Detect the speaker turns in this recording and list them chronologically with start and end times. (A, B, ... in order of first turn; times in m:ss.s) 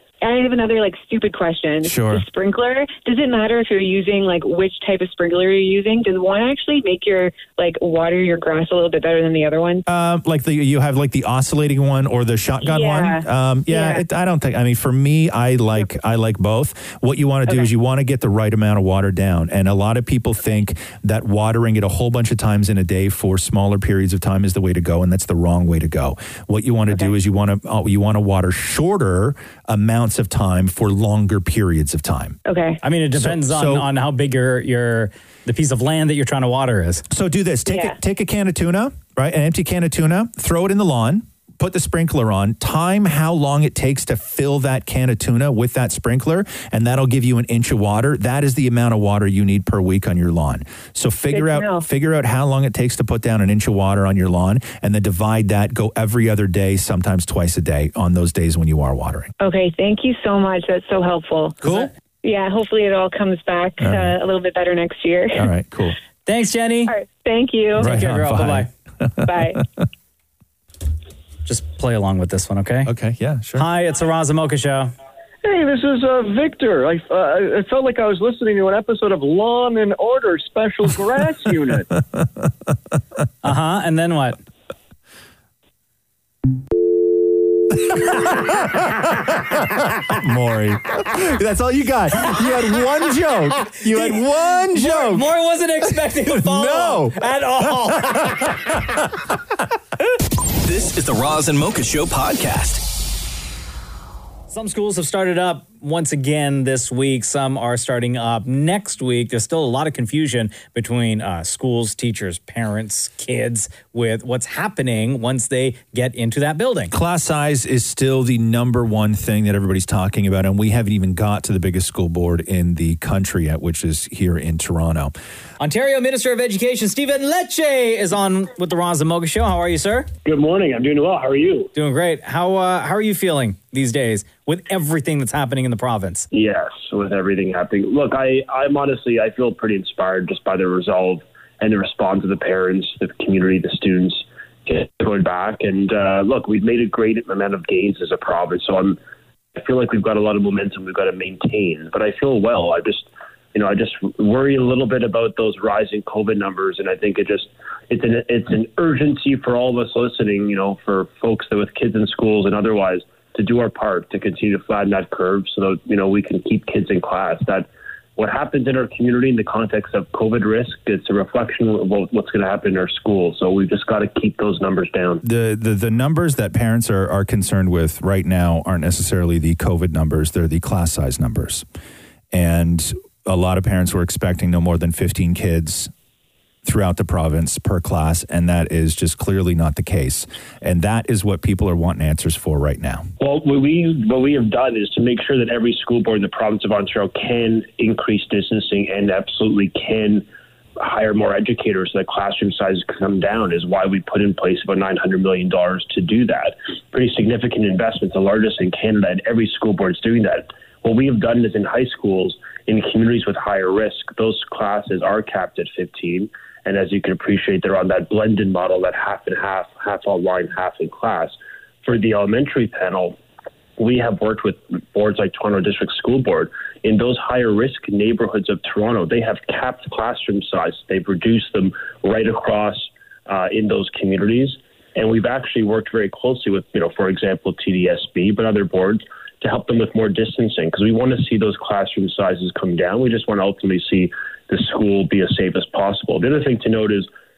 0:00.2-0:09.8 A
0:01.8-0:02.2 B
0:09.9-0:32.4 B
0:12.6-0:14.0 A
0:32.4-0:32.8 A
0:32.8-0:37.0 C
0:33.2-0:33.9 B
0:37.1-0:59.3 B
0:37.7-0:38.0 A
0:51.3-0:51.8 A
0:59.4-1:01.6 A
1:01.6-1:01.9 C
1:01.6-1:01.9 B
1:02.2-1:05.5 A
1:03.8-1:04.2 B
1:05.4-1:06.0 B
1:06.3-1:06.9 C
1:06.9-1:07.9 A
1:07.8-1:09.4 B
1:07.8-1:08.7 C
1:09.2-1:09.6 A
1:11.5-1:12.9 C
1:12.9-1:13.7 B
1:13.6-1:14.9 C
1:15.4-1:21.9 D
1:23.4-1:24.4 C
1:27.8-1:35.3 B
1:33.9-1:34.2 C
1:34.7-1:38.4 C
1:36.3-1:37.2 B
1:37.9-1:38.8 B
1:40.6-1:42.8 E
1:44.5-1:56.9 C
1:56.9-2:05.1 B
2:05.6-2:10.1 C
2:10.2-2:11.7 F
2:11.7-2:16.3 C
2:16.3-2:29.0 F
2:29.6-2:55.2 F
2:55.2-3:01.6 B
3:02.3-3:05.9 B
3:06.6-3:13.1 B
3:13.2-3:20.2 F
3:20.8-3:43.2 F
3:43.8-4:07.1 F